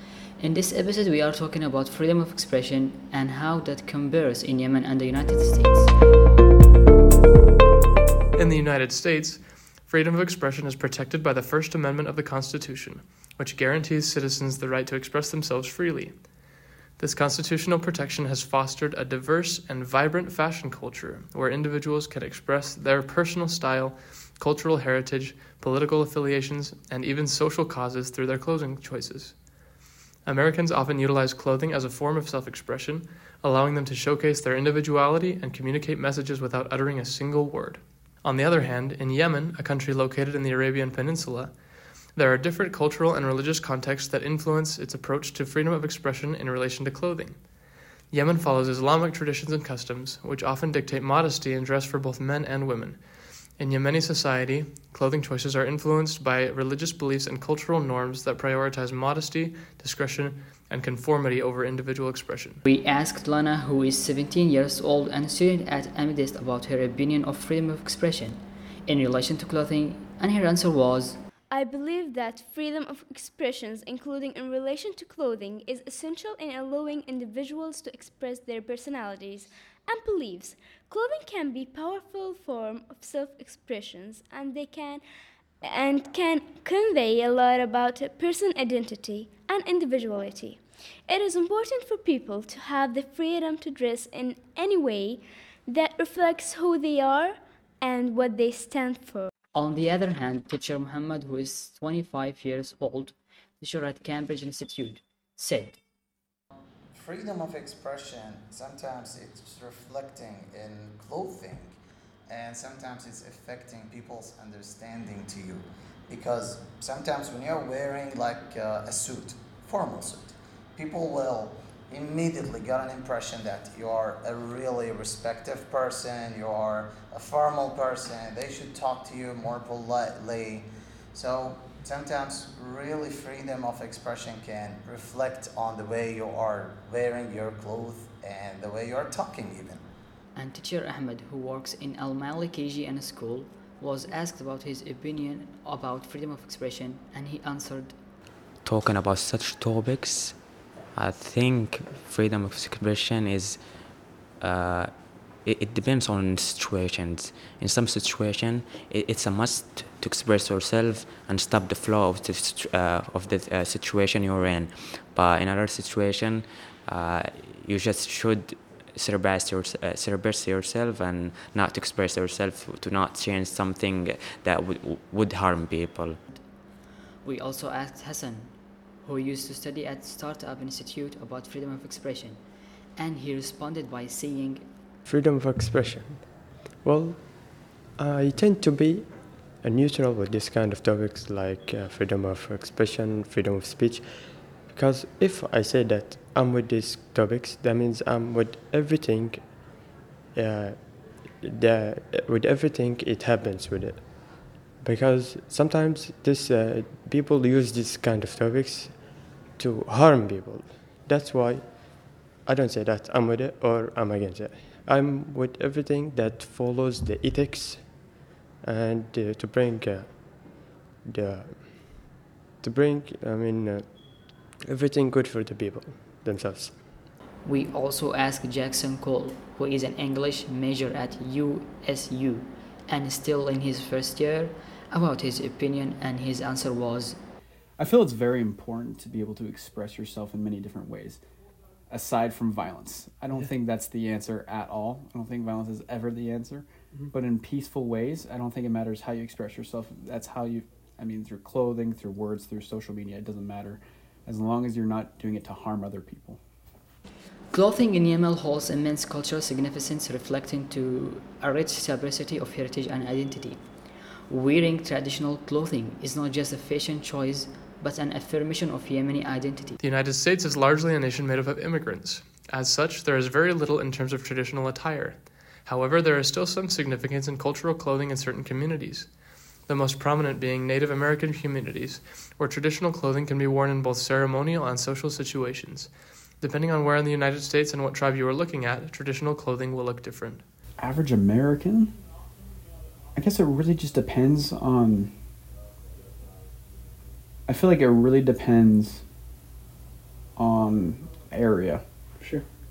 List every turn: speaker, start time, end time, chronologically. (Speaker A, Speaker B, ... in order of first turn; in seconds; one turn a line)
Speaker A: 0.4-5.9
Speaker B: 8.3-16.4
Speaker B: 17.0-29.5
Speaker B: 30.2-62.6
Speaker A: 62.6-71.2
Speaker C: 71.5-85.0
Speaker C: 85.7-99.3
Speaker A: 99.5-105.8
Speaker D: 106.9-139.8
Speaker A: 140.3-148.0
Speaker E: 148.6-150.4
Speaker E: 150.9-153.6
Speaker E: 154.4-176.2
Speaker A: 176.3-176.6
Speaker A: 177.2-182.4
Speaker A: 183.0-184.7
Speaker F: 185.1-226.8
Speaker A: 227.4-237.2
Speaker G: 237.8-241.2
Speaker G: 241.9-256.4
Speaker A: 257.5-263.6
Speaker A: 264.3-269.8
Speaker B: 269.8-290.4
Speaker G: 290.8-291.9
Speaker G: 293.1-295.1
Speaker G: 297.5-299.0
Speaker G: 300.4-302.4